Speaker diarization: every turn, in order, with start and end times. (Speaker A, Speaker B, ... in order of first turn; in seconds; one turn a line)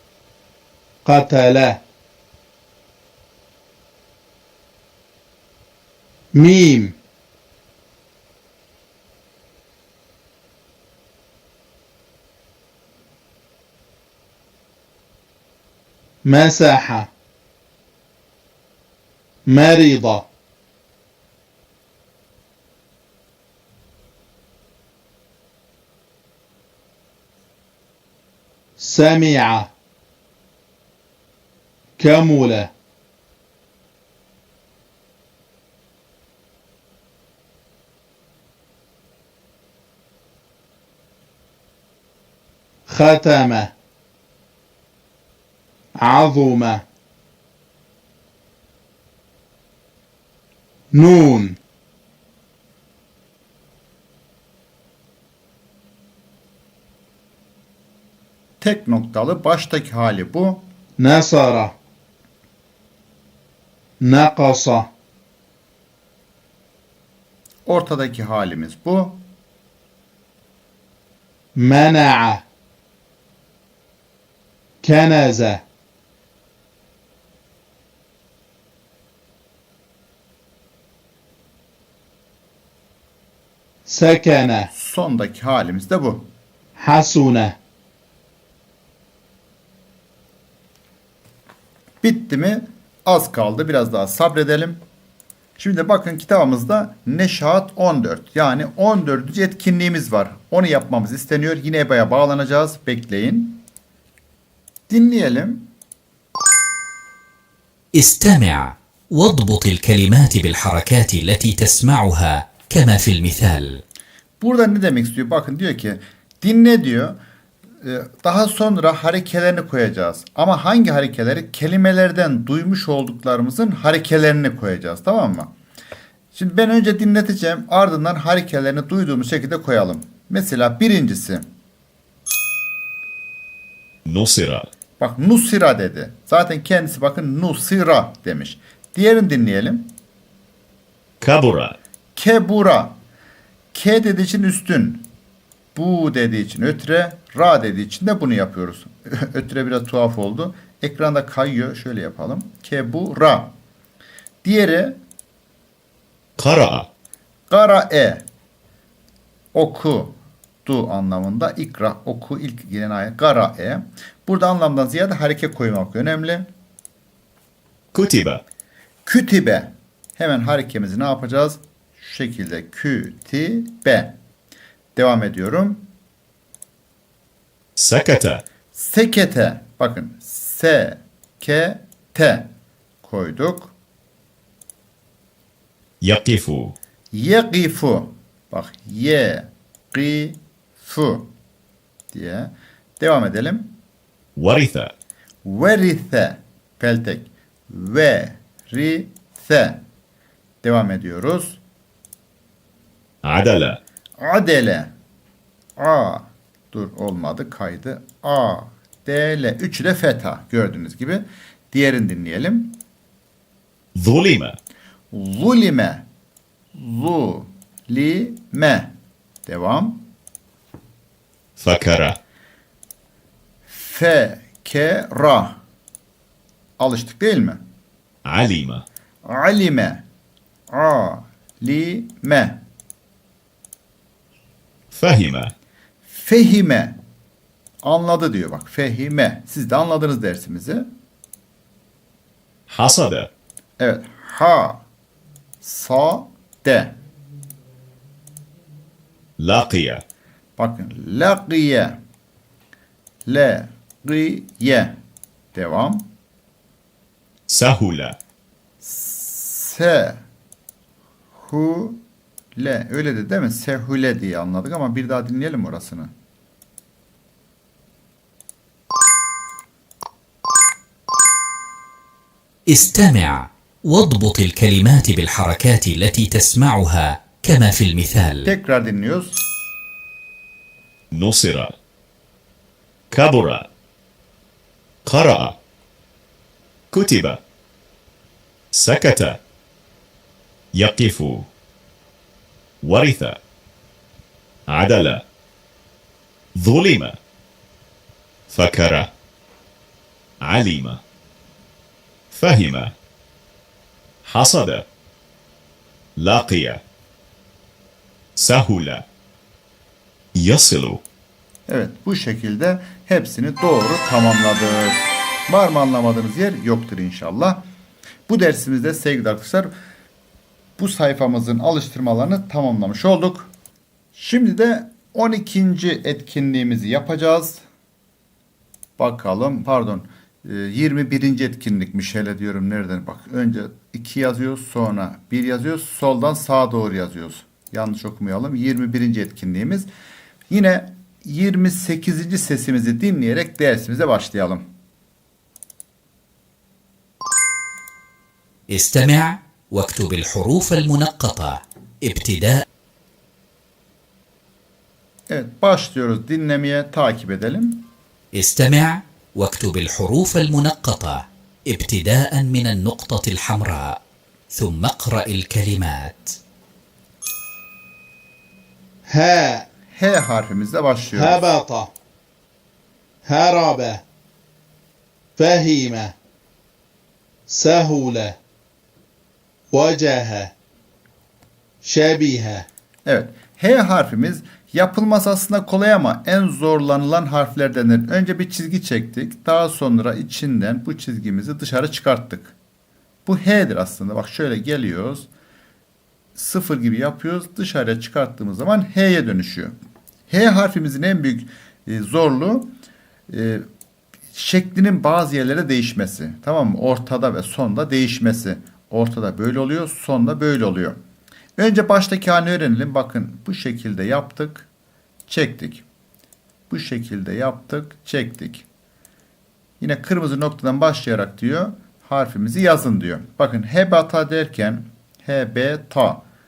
Speaker A: 1.0-1.8
Speaker A: 6.3-7.0
Speaker A: 16.2-17.1
Speaker A: 19.4-20.3
Speaker A: 28.8-29.7
Speaker A: 32.0-32.7
Speaker A: 42.9-43.7
Speaker A: 45.9-46.8
Speaker A: 50.9-51.6
Speaker B: 58.6-60.6
Speaker A: 61.0-61.7
Speaker A: 64.0-64.9
Speaker B: 67.7-69.2
Speaker A: 71.5-72.4
Speaker A: 74.8-75.6
Speaker A: 83.8-84.7
Speaker B: 84.7-86.3
Speaker A: 86.8-87.5
Speaker B: 92.0-94.8
Speaker B: 95.6-103.7
Speaker B: 104.9-105.7
Speaker C: 107.9-113.8
Speaker B: 114.4-117.2
Speaker B: 117.8-125.5
Speaker B: 126.3-131.4
Speaker D: 134.0-134.7
Speaker B: 135.0-139.9
Speaker D: 141.2-141.8
Speaker B: 142.2-142.9
Speaker B: 143.7-145.1
Speaker B: 145.7-153.5
Speaker B: 154.4-155.0
Speaker D: 156.4-156.9
Speaker B: 157.5-158.2
Speaker B: 159.5-166.5
Speaker D: 167.9-168.4
Speaker B: 169.0-174.2
Speaker B: 174.9-175.9
Speaker D: 177.8-178.4
Speaker B: 178.7-182.5
Speaker B: 183.0-183.7
Speaker D: 186.0-186.7
Speaker B: 187.1-191.3
Speaker B: 192.1-193.7
Speaker D: 194.3-194.9
Speaker B: 195.4-199.8
Speaker B: 200.6-201.6
Speaker D: 203.2-203.8
Speaker B: 204.2-204.9
Speaker B: 205.8-212.8
Speaker D: 213.9-214.6
Speaker B: 215.1-216.1
Speaker B: 216.7-218.9
Speaker B: 219.4-220.1
Speaker D: 221.6-222.2
Speaker B: 223.7-225.6
Speaker B: 226.8-227.6
Speaker D: 228.2-228.8
Speaker B: 229.2-230.0
Speaker B: 230.7-232.6
Speaker D: 234.9-235.5
Speaker B: 236.1-237.0
Speaker B: 237.8-240.9
Speaker D: 242.7-243.3
Speaker B: 243.8-244.8
Speaker B: 245.6-247.0
Speaker D: 249.4-250.0
Speaker B: 250.6-252.0
Speaker B: 253.2-255.0
Speaker B: 255.5-256.1
Speaker D: 257.5-258.2
Speaker B: 258.8-260.2
Speaker B: 261.4-262.0
Speaker B: 262.5-266.1
Speaker C: 272.7-278.5
Speaker B: 278.4-279.4
Speaker D: 281.1-281.7
Speaker D: 283.1-283.7
Speaker D: 285.1-285.6
Speaker D: 286.9-287.4
Speaker D: 288.7-289.4
Speaker D: 290.7-291.5
Speaker D: 292.8-293.4
Speaker D: 294.7-295.2
Speaker D: 296.5-297.2
Speaker D: 298.5-299.1
Speaker D: 300.4-301.0
Speaker D: 302.3-302.9
Speaker D: 304.2-304.9
Speaker D: 306.2-306.8
Speaker D: 308.4-309.1
Speaker D: 310.3-311.0
Speaker B: 311.7-317.6
Speaker B: 318.3-319.7
Speaker B: 320.8-323.5
Speaker B: 324.1-327.6
Speaker B: 329.0-339.9
Speaker B: 340.5-344.7
Speaker C: 348.7-352.6
Speaker B: 355.3-357.9
Speaker C: 358.3-366.4
Speaker A: 369.1-369.7
Speaker B: 369.9-371.4
Speaker A: 371.1-371.9
Speaker A: 373.2-374.0
Speaker A: 375.4-376.1
Speaker A: 377.5-378.4
Speaker A: 379.7-380.5
Speaker A: 381.8-382.7
Speaker B: 383.1-392.5
Speaker B: 393.2-395.3
Speaker B: 396.3-399.7
Speaker B: 400.3-402.7
Speaker B: 403.3-403.6
Speaker B: 404.3-411.0
Speaker B: 411.6-414.7
Speaker B: 415.3-415.8
Speaker B: 416.7-418.6
Speaker B: 419.8-426.2